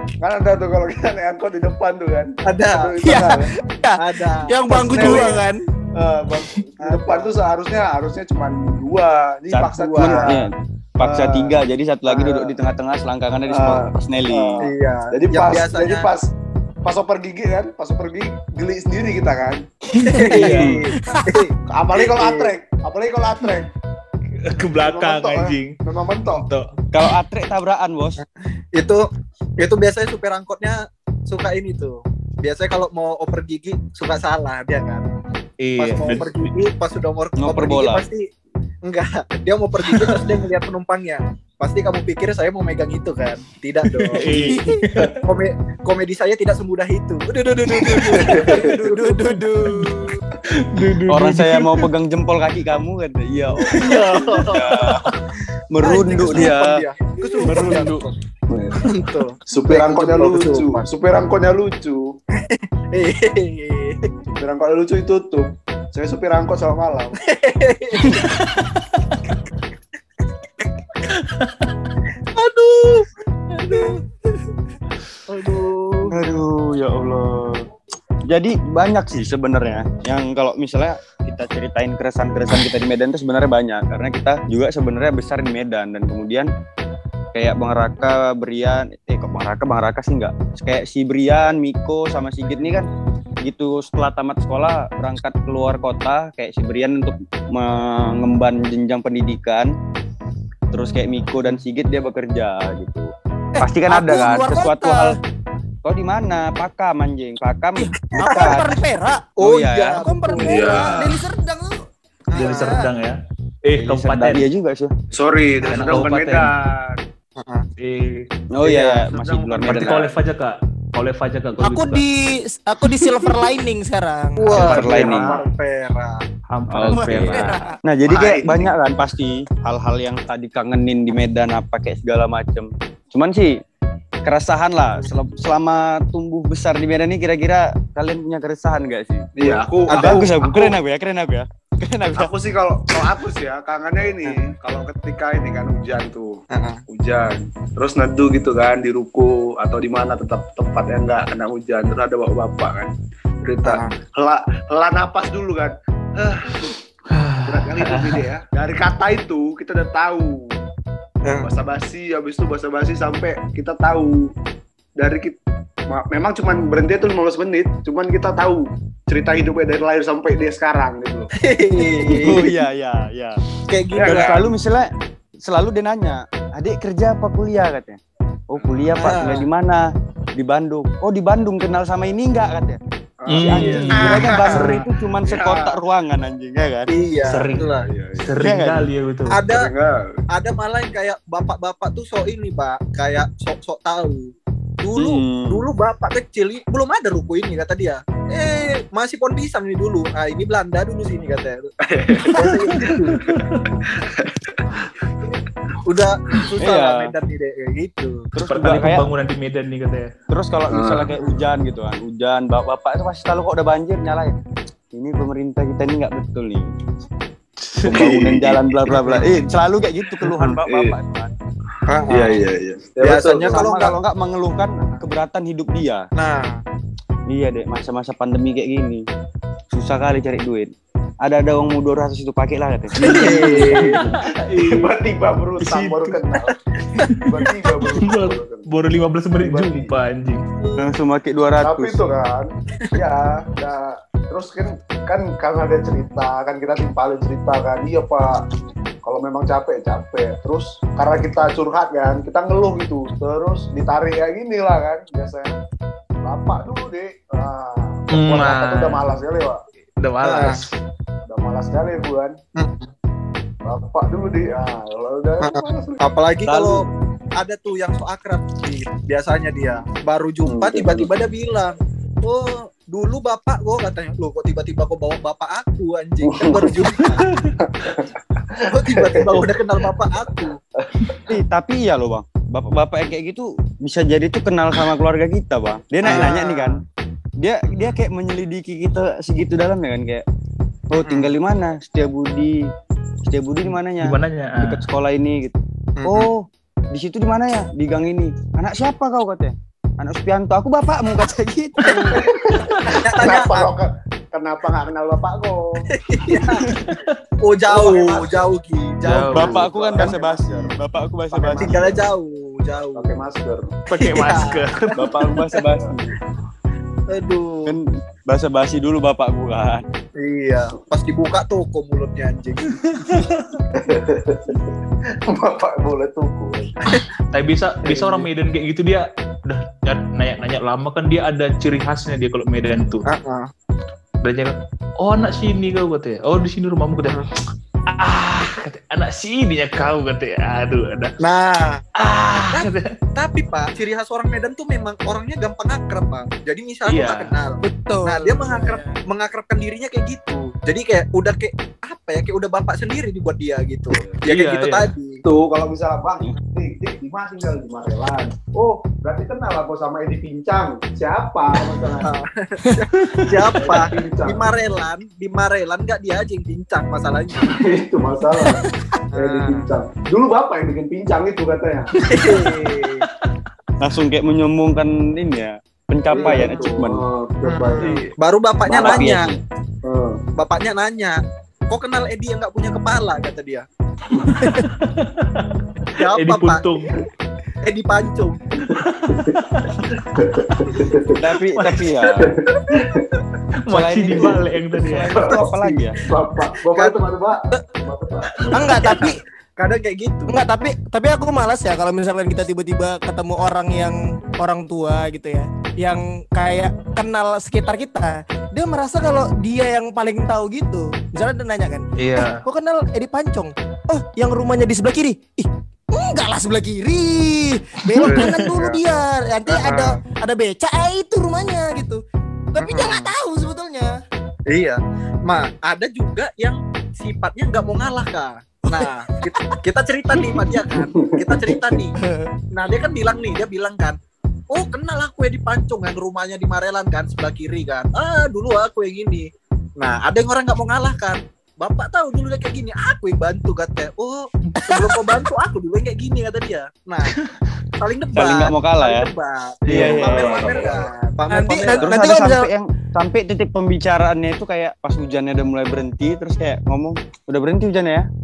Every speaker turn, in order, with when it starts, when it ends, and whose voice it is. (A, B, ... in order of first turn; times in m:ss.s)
0:00.2-0:03.5 A
0:02.4-0:03.3 B
0:03.0-0:05.6 C
0:04.0-0:05.4 B
0:04.5-0:05.4 A
0:06.0-0:10.4 A
0:06.8-0:07.4 B
0:09.5-0:10.4 B
0:10.0-0:14.7 D
0:11.0-0:11.6 B
0:12.1-0:12.5 B
0:13.5-0:16.3 A
0:14.6-0:16.1 B
0:16.8-0:19.7 A
0:19.9-0:20.9 E
0:20.0-0:22.5 B
0:20.9-0:21.4 C
0:21.7-0:23.7 A
0:24.4-0:25.8 E
0:24.8-0:26.5 A
0:26.3-0:26.7 E
0:26.9-0:28.2 D
0:28.2-0:29.0 B
0:29.6-0:35.0 B
0:35.6-0:36.5 E
0:35.8-0:38.2 B
0:37.4-0:38.0 D
0:38.9-0:44.5 B
0:39.9-0:40.2 E
0:43.9-0:45.2 E
0:44.3-0:44.8 C
0:45.2-0:49.4 B
0:48.1-0:48.8 A
0:48.4-0:50.0 C
0:50.5-0:51.9 E
0:51.1-0:55.2 D
0:53.7-0:55.2 E
0:53.8-0:55.1 B
0:55.7-0:56.8 D
0:55.8-0:58.2 B
0:57.4-0:58.0 E
0:58.5-0:58.8 A
0:58.9-1:00.8 B
0:59.5-1:02.2 A
1:02.4-1:04.1 B
1:04.2-1:07.2 A
1:07.2-1:08.4 B
1:08.1-1:09.2 E
1:11.1-1:11.7 E
1:12.4-1:14.0 B
1:15.3-1:16.1 B
1:16.1-1:17.7 D
1:18.3-1:26.5 D
1:27.3-1:32.9 D
1:33.4-1:39.7 D
1:40.7-1:45.2 D
1:43.6-1:45.2 C
1:45.8-1:48.7 D
1:48.1-1:48.7 B
1:48.2-1:49.3 C
1:49.4-1:51.0 B
1:49.4-1:50.1 D
1:50.0-1:51.8 C
1:50.4-1:51.2 A
1:52.3-1:52.9 B
1:52.4-1:52.9 C
1:52.4-1:54.5 E
1:53.8-1:54.9 D
1:55.1-1:57.0 A
1:55.6-1:56.5 E
1:55.7-1:55.9 B
1:57.4-1:57.7 B
1:57.8-1:58.2 E
1:58.5-2:00.1 D
1:58.6-2:00.1 A
1:59.6-2:02.0 E
2:01.6-2:04.7 C
2:04.4-2:06.2 B
2:04.5-2:05.4 D
2:04.6-2:05.1 E
2:04.6-2:05.5 A
2:06.5-2:07.6 E
2:06.7-2:13.5 D
2:06.9-2:07.8 C
2:08.0-2:08.8 A
2:14.2-2:22.3 D
2:19.4-2:20.8 A
2:19.9-2:20.3 B
2:22.2-2:32.9 A
2:26.5-2:26.8 B
2:33.4-2:36.8 A
2:33.6-2:33.9 B
2:37.1-2:38.2 E
2:37.5-2:40.6 A
2:41.2-2:41.5 B
2:41.4-2:44.3 A
2:45.0-2:45.4 A
2:45.9-2:51.3 A
2:51.4-2:52.5 B
2:52.2-2:53.4 D
2:53.7-2:54.4 B
2:53.9-2:54.6 A
2:54.0-2:54.9 D
2:55.4-2:58.0 D
2:58.5-2:59.8 D
2:58.5-2:59.1 A
2:59.0-2:59.5 B
3:00.4-3:02.8 D
3:03.2-3:04.7 A
3:03.3-3:04.9 E
3:03.4-3:06.9 D
3:03.5-3:05.8 B
3:06.9-3:07.9 B
3:07.2-3:07.7 E
3:07.8-3:08.5 A
3:08.2-3:09.4 E
3:08.4-3:08.9 D
3:09.3-3:09.7 B
3:09.5-3:10.2 A
3:10.3-3:23.3 B
3:15.0-3:15.6 D
3:21.8-3:25.1 A
3:25.8-3:28.3 B
3:26.6-3:27.1 D
3:28.3-3:29.1 D
3:28.4-3:30.1 E
3:30.3-3:34.3 D
3:30.7-3:31.5 A
3:34.9-3:36.7 D
3:37.6-3:38.0 E
3:37.8-3:39.3 A
3:37.9-3:41.3 D
3:39.0-3:39.3 B
3:40.2-3:41.0 A
3:41.9-3:42.4 B
3:42.0-3:43.7 A
3:43.0-3:44.0 B
3:43.5-3:46.1 D
3:46.2-3:46.6 B
3:47.3-3:49.0 D
3:49.7-3:50.7 D
3:51.2-3:54.0 D
3:53.0-3:54.0 B
3:53.0-3:56.6 A
3:53.6-3:54.9 E
3:55.6-3:56.2 E
3:57.1-3:58.7 A
3:58.0-4:00.4 E
3:59.4-4:00.0 A
4:00.8-4:02.0 D
4:01.6-4:08.4 A
4:09.0-4:15.6 A
4:16.2-4:19.6 A
4:18.1-4:19.0 E
4:20.0-4:20.7 E
4:20.2-4:20.6 B
4:21.2-4:22.4 A
4:22.6-4:22.9 B
4:23.6-4:26.0 A
4:25.4-4:26.8 B
4:26.5-4:26.8 D
4:27.4-4:37.3 B
4:30.4-4:31.1 A
4:36.2-4:40.0 A
4:37.0-4:37.6 E
4:38.7-4:40.6 B
4:40.8-4:41.3 A
4:41.3-4:46.8 D
4:46.0-4:46.8 B
4:47.4-4:50.2 D
4:47.7-4:48.0 B
4:50.9-4:52.6 D
4:51.0-4:51.3 B
4:53.2-5:02.2 D
4:54.0-4:54.9 E
4:56.0-4:56.3 B
5:01.8-5:02.1 E
5:02.0-5:05.9 A
5:02.9-5:03.7 B
5:05.9-5:06.8 B
5:06.7-5:07.2 E
5:07.4-5:10.2 B
5:07.7-5:08.5 A
5:09.0-5:09.6 E
5:09.3-5:11.9 D
5:09.5-5:10.8 A
5:11.3-5:12.0 A
5:11.5-5:13.1 B
5:13.0-5:13.8 A
5:13.9-5:15.0 E
5:13.9-5:15.6 B
5:15.0-5:16.2 D
5:17.1-5:17.8 B
5:17.6-5:19.8 D
5:20.2-5:23.2 B
5:22.8-5:23.4 E
5:23.8-5:24.7 A
5:25.3-5:27.0 A
5:27.3-5:33.1 E
5:33.1-5:33.5 B
5:34.2-5:37.3 E
5:37.0-5:37.3 B
5:37.9-5:41.2 E
5:41.2-5:41.8 B
5:42.0-5:43.0 E
5:42.5-5:55.2 B
5:46.9-5:47.4 E
5:47.6-5:49.0 C
5:54.2-5:54.9 E
5:55.2-6:02.1 A
6:02.0-6:07.5 B
6:02.7-6:03.5 E
6:03.6-6:04.5 A
6:07.4-6:08.6 A
6:09.1-6:09.7 B
6:09.1-6:11.9 A
6:12.1-6:13.1 B
6:13.0-6:13.4 E
6:13.8-6:17.0 D
6:16.1-6:18.0 A
6:16.1-6:16.6 B
6:17.4-6:19.3 B
6:17.8-6:18.1 E
6:18.7-6:19.4 D
6:18.7-6:19.1 A
6:19.8-6:20.2 A
6:20.4-6:21.2 B
6:21.7-6:23.6 B
6:24.2-6:27.0 E
6:26.0-6:26.6 B
6:27.6-6:28.5 B
6:28.6-6:29.4 A
6:28.7-6:29.9 E
6:30.0-6:31.2 A
6:31.2-6:32.3 D
6:31.5-6:31.9 E
6:32.1-6:33.2 A
6:33.6-6:35.1 E
6:33.7-6:36.0 D
6:34.1-6:34.4 A
6:35.1-6:39.0 A
6:36.7-6:37.6 B
6:38.5-6:40.4 B
6:38.5-6:39.2 C
6:40.3-7:02.0 C
6:52.0-6:52.4 E
6:58.0-6:58.5 E
6:58.0-6:58.8 B
6:59.5-7:00.0 B
7:02.5-7:03.9 C
7:02.6-7:03.1 B
7:04.5-7:11.9 B
7:08.7-7:09.6 C
7:10.7-7:11.9 A
7:12.5-7:14.0 B
7:14.5-7:27.2 B
7:24.6-7:25.0 C
7:27.8-7:32.0 B
7:28.2-7:29.1 D
7:29.6-7:30.7 E
7:29.7-7:30.8 A
7:29.8-7:30.4 D
7:31.3-7:32.5 C
7:31.8-7:38.1 D